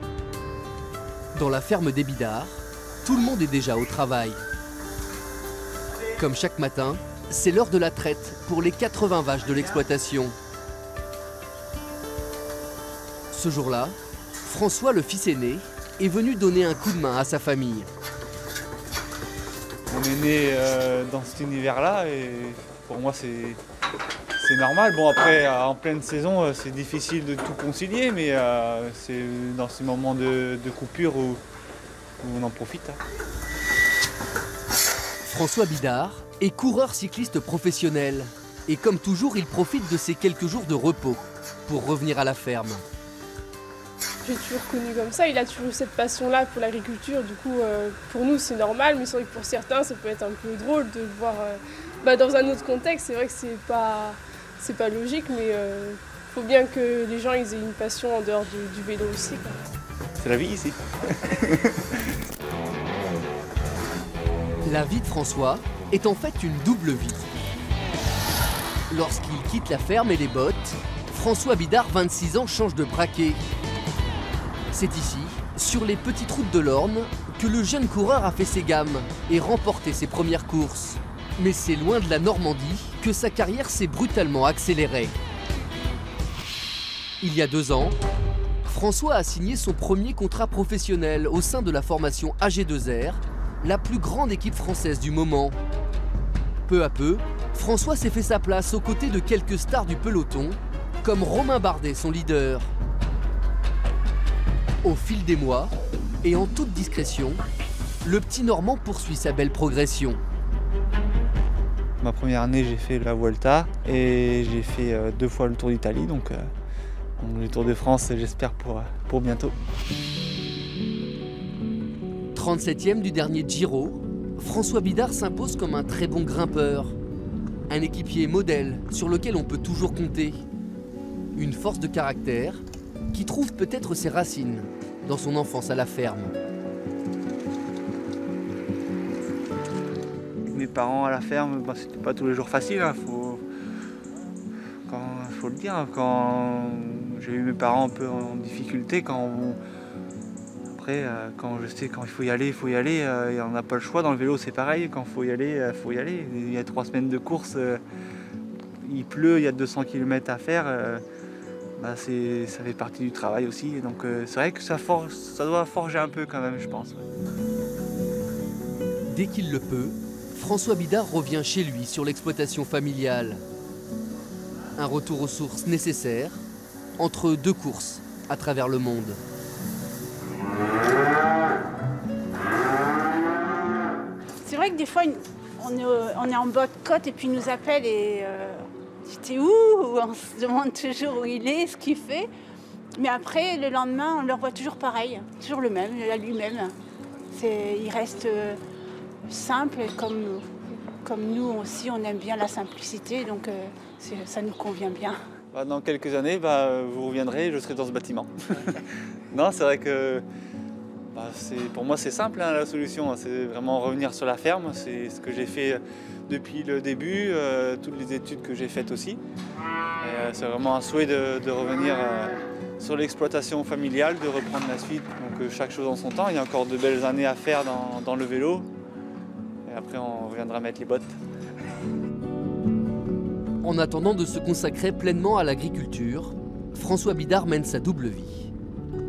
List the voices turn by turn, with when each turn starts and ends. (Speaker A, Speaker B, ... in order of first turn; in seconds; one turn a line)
Speaker A: 1.3-4.4
Speaker A: 6.2-10.3
Speaker A: 13.3-17.9
Speaker B: 19.9-23.6
Speaker B: 24.4-31.4
Speaker B: 32.2-33.0
Speaker A: 35.2-42.8
Speaker C: 44.2-59.6
Speaker B: 60.2-61.9
Speaker A: 64.6-67.2
Speaker A: 68.9-73.4
Speaker A: 74.7-85.1
Speaker A: 87.2-88.0
Speaker A: 88.6-95.6
Speaker A: 96.7-102.7
Speaker A: 104.8-107.4
Speaker A: 108.0-110.2
Speaker B: 112.0-116.5
Speaker B: 117.2-119.5
Speaker A: 122.3-127.0
Speaker A: 127.7-130.4
Speaker A: 131.3-136.3
Speaker B: 140.5-143.4
Speaker B: 144.9-149.6
Speaker B: 150.7-157.8
Speaker B: 158.8-161.0
Speaker B: 161.8-167.1
Speaker A: 169.1-173.4
Speaker A: 174.8-176.4
Speaker A: 177.0-179.2
Speaker D: 184.4-192.3
Speaker D: 193.0-196.7
Speaker D: 197.3-198.6
Speaker D: 199.3-200.4
Speaker D: 201.0-205.2
Speaker B: 205.5-208.8
Speaker B: 209.3-210.2
Speaker B: 211.1-219.2
Speaker B: 220.0-228.7
Speaker B: 229.7-231.2
Speaker A: 233.6-238.5